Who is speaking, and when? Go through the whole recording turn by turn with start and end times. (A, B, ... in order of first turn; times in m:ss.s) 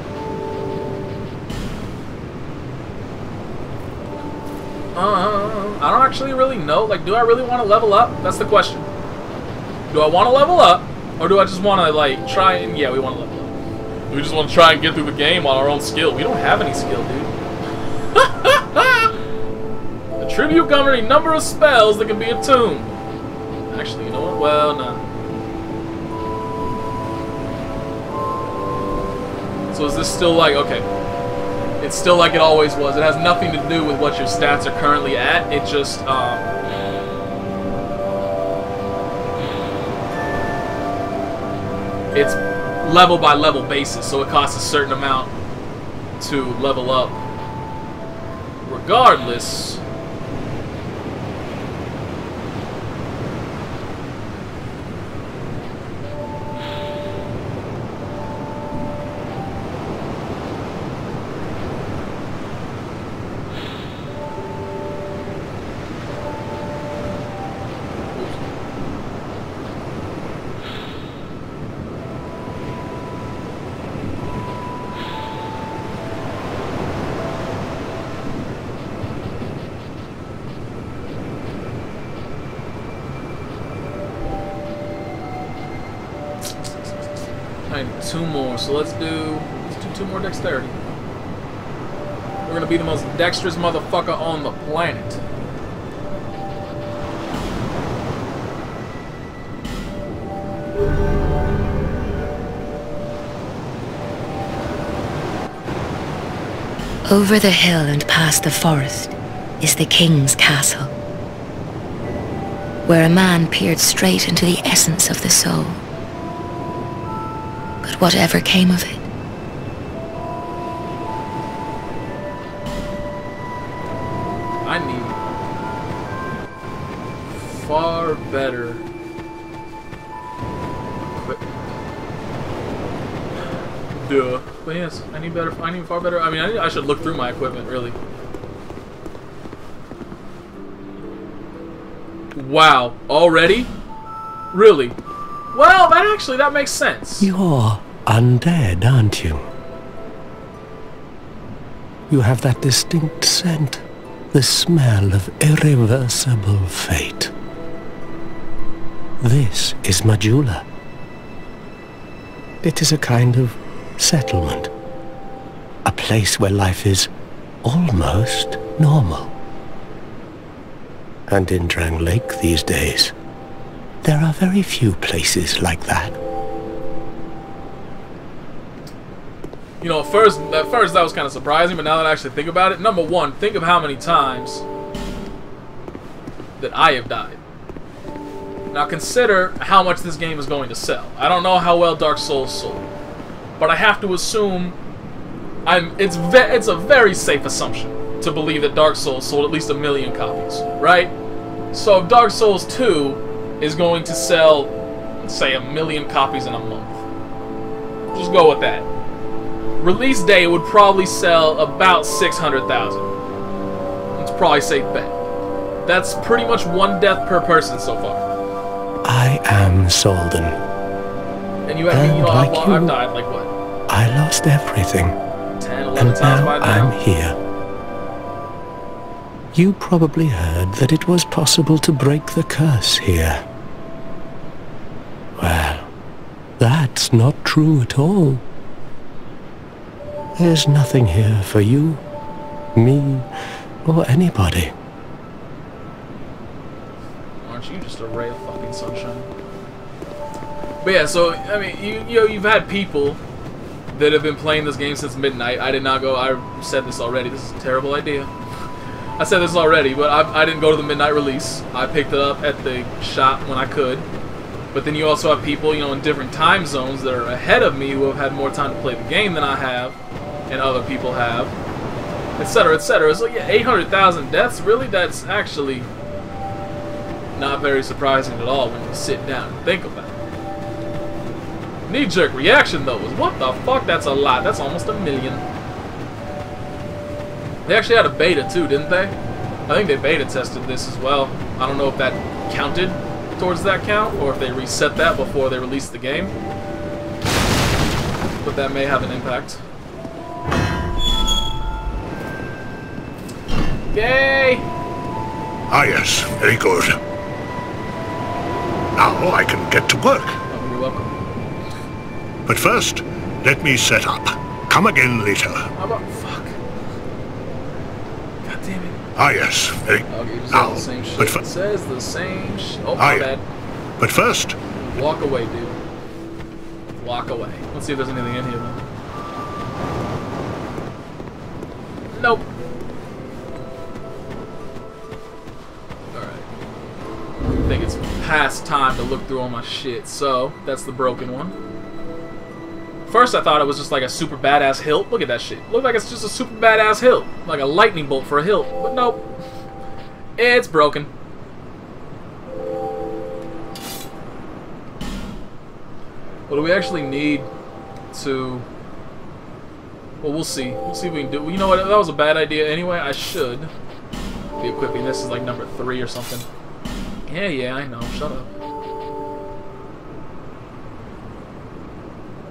0:05.0-0:08.9 A
0:09.9-0:13.5 A
0:14.1-0:17.3 A
0:18.1-0:19.1 A
0:20.2-0:22.9 A
0:23.7-0:25.0 A
0:29.7-0:30.8 A
0:31.8-0:36.5 A
0:42.1-0:45.3 A
0:46.2-0:47.2 A
0:48.6-0:49.8 A
1:08.1-1:08.4 A
1:27.7-1:30.8 A
1:32.4-1:35.2 A
1:47.1-1:50.9 B
1:52.9-1:55.8 B
1:57.8-1:59.1 B
2:04.6-2:05.2 A
2:07.3-2:08.8 A
2:11.0-2:11.5 A
2:13.9-2:18.0 A
2:22.3-2:23.7 A
2:24.5-2:25.0 A
2:25.5-2:27.3 A
2:27.2-2:29.4 C
2:32.1-2:37.3 C
2:39.2-2:40.7 C
2:42.6-2:44.7 C
2:45.8-2:47.1 C
2:47.6-2:49.3 C
2:51.3-2:53.1 C
2:54.0-2:56.2 C
2:59.8-3:04.6 A
3:06.6-3:07.4 A
3:08.7-3:12.9 A
3:13.6-3:14.8 A
3:15.7-3:21.1 A
3:21.7-3:27.0 A
3:28.1-3:28.9 A
3:29.8-3:33.1 A
3:34.2-3:35.2 A
3:35.8-3:38.3 A
3:39.1-3:40.6 C
3:41.7-3:43.5 A
3:41.9-3:43.0 C
3:43.9-3:45.2 C
3:45.6-3:46.9 A
3:46.0-3:47.4 C
3:49.5-3:53.4 C
3:55.4-3:55.9 C
3:56.6-3:58.4 C
4:00.4-4:02.0 C
4:02.8-4:03.3 C
4:03.8-4:04.8 C
4:07.4-4:09.3 A
4:10.8-4:13.2 A
4:13.9-4:18.3 A
4:19.2-4:24.1 A
4:24.7-4:30.0 A
4:30.5-4:31.5 A
4:32.4-4:35.9 A
4:37.4-4:40.2 A
4:41.9-4:45.4 A
4:47.7-4:49.1 A
4:49.7-4:56.3 A
4:58.4-4:59.6 A
5:03.9-5:04.7 A
5:05.7-5:07.0 D
5:09.0-5:10.4 D
5:10.5-5:11.2 A
5:12.5-5:15.7 D
5:15.7-5:16.6 A
5:18.4-5:19.0 A
5:19.2-5:21.4 D
5:20.1-5:23.5 A
5:23.0-5:23.3 D
5:24.0-5:24.6 D
5:24.8-5:25.8 A
5:27.0-5:28.8 A
5:32.1-5:32.4 A
5:36.1-5:36.5 A
5:37.7-5:41.6 A
5:43.1-5:49.2 A
5:50.4-5:51.1 A
5:56.5-5:57.5 A
5:58.1-5:58.7 A
6:00.2-6:03.7 A
6:04.6-6:06.5 A
6:07.3-6:08.5 A